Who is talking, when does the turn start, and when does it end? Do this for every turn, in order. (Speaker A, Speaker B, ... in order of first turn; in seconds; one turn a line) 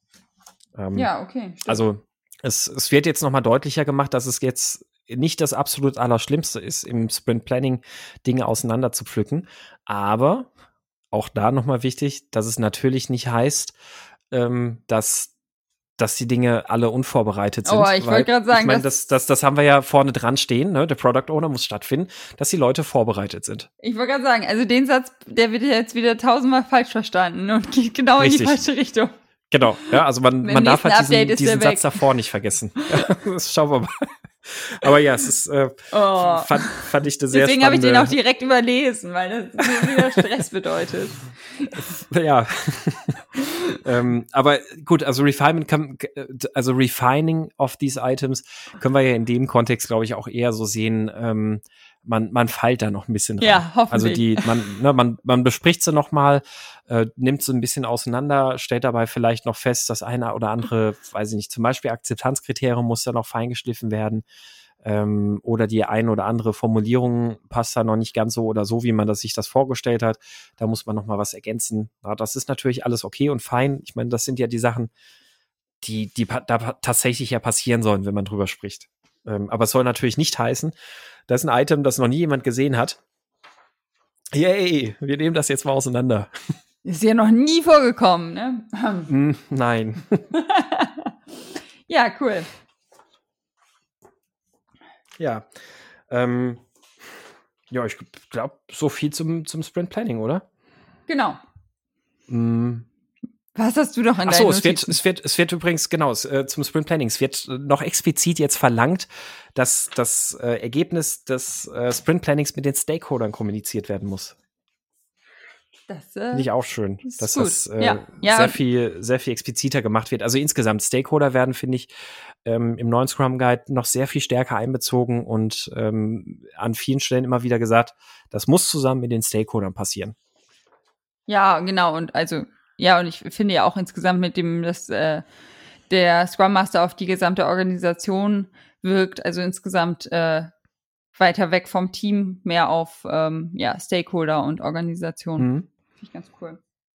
Speaker A: 0.8-1.1
Speaker B: 0.9-1.8
Speaker A: 1.7-10.5
Speaker A: 11.1-13.8
Speaker A: 14.3-15.3
Speaker A: 16.0-23.7
Speaker B: 17.6-18.9
Speaker B: 23.8-29.1
Speaker A: 28.2-28.6
Speaker A: 29.5-38.1
Speaker B: 29.7-32.1
Speaker B: 35.9-42.0
Speaker A: 39.8-40.3
Speaker A: 41.7-43.2
Speaker B: 43.4-43.8
Speaker A: 43.8-64.2
Speaker B: 53.4-54.6
Speaker A: 64.8-74.9
Speaker A: 75.8-80.7
Speaker A: 81.3-83.0
Speaker A: 84.3-86.5
Speaker B: 86.8-89.1
Speaker A: 89.1-90.2
Speaker B: 90.3-91.1
Speaker B: 91.9-92.5
Speaker A: 95.2-95.5
Speaker A: 96.1-96.6
Speaker A: 97.7-100.4
Speaker B: 101.1-101.4
Speaker A: 102.3-102.9
Speaker B: 103.5-105.0
Speaker A: 104.2-114.4
Speaker B: 115.9-116.5
Speaker A: 116.3-121.9
Speaker B: 117.0-118.6
Speaker A: 122.5-130.2
Speaker B: 131.3-135.3
Speaker B: 135.9-140.5
Speaker B: 141.2-146.6
Speaker A: 145.4-145.7